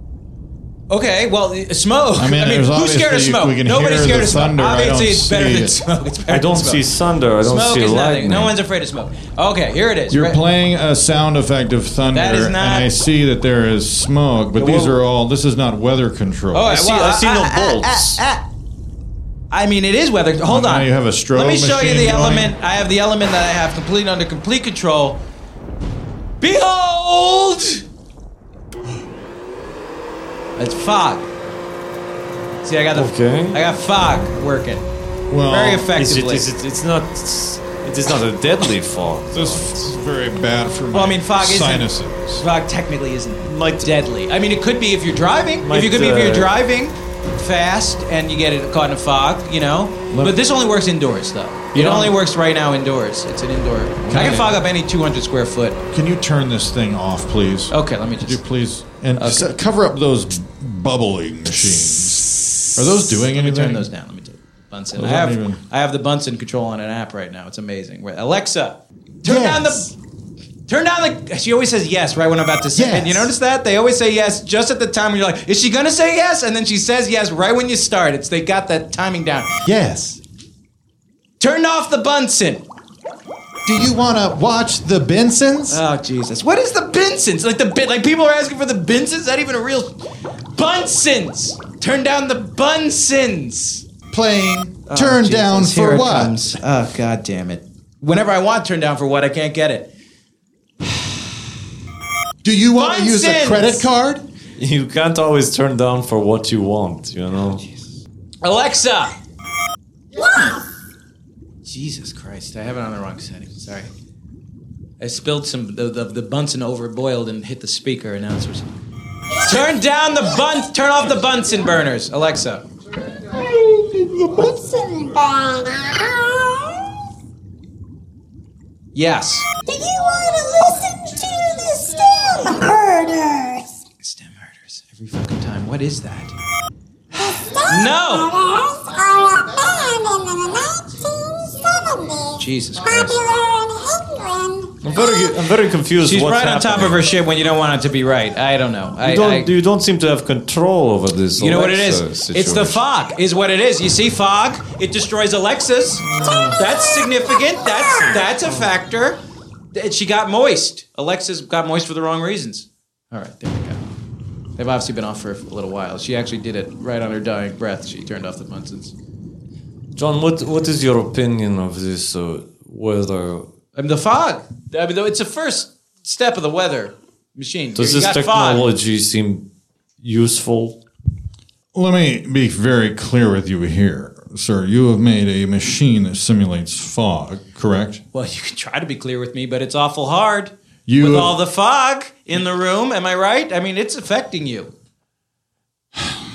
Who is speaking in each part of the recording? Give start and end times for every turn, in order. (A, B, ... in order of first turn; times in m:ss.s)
0:00.9-0:06.8 A
0:02.2-0:05.8 B
0:06.3-0:08.6 C
0:07.4-0:10.4 A
0:10.1-0:16.7 B
0:12.1-0:12.9 A
0:14.5-0:15.0 C
0:16.5-0:18.4 A
0:16.6-0:18.2 C
0:19.5-0:25.2 A
0:20.4-0:22.5 B
0:26.4-0:27.8 A
0:30.6-0:31.3 A
0:32.6-0:34.8 A
0:32.9-0:33.6 C
0:35.3-0:35.9 B
0:35.4-0:36.5 A
0:36.0-0:40.0 C
0:39.3-0:42.4 B
0:40.9-0:55.8 A
0:43.4-0:43.9 C
0:45.6-0:46.5 C
0:51.7-0:52.2 C
0:54.0-0:54.6 C
0:55.9-1:03.9 B
0:57.7-0:58.4 A
0:59.2-0:59.6 A
1:03.3-1:09.9 A
1:05.0-1:05.6 B
1:09.2-1:09.9 D
1:10.7-1:19.6 A
1:12.8-1:13.3 D
1:19.7-1:20.2 D
1:21.4-1:22.6 A
1:23.7-1:25.8 B
1:25.7-1:30.0 A
1:30.6-1:33.9 A
1:34.1-1:36.3 B
1:34.9-1:39.9 A
1:42.4-1:43.9 B
1:42.7-1:43.9 A
1:43.3-1:44.2 D
1:44.6-1:47.6 C
1:48.4-1:49.1 A
1:50.2-1:50.6 E
1:51.7-1:53.9 A
1:55.0-1:58.7 A
1:59.4-2:00.7 E
1:59.4-2:02.6 A
2:03.1-2:06.9 E
2:08.9-2:09.5 A
2:09.7-2:13.7 E
2:14.0-2:16.4 A
2:17.1-2:25.4 E
2:17.7-2:18.3 A
2:22.4-2:23.2 A
2:24.8-2:27.1 C
2:26.0-2:29.5 A
2:29.0-2:32.8 C
2:31.4-2:39.2 A
2:36.0-2:36.6 C
2:39.7-2:43.8 A
2:44.6-2:48.9 A
2:50.0-2:53.5 C
2:53.8-2:58.7 A
2:57.8-2:59.4 C
3:00.0-3:00.8 C
3:01.7-3:08.0 B
3:08.1-3:14.7 A
3:10.9-3:11.4 B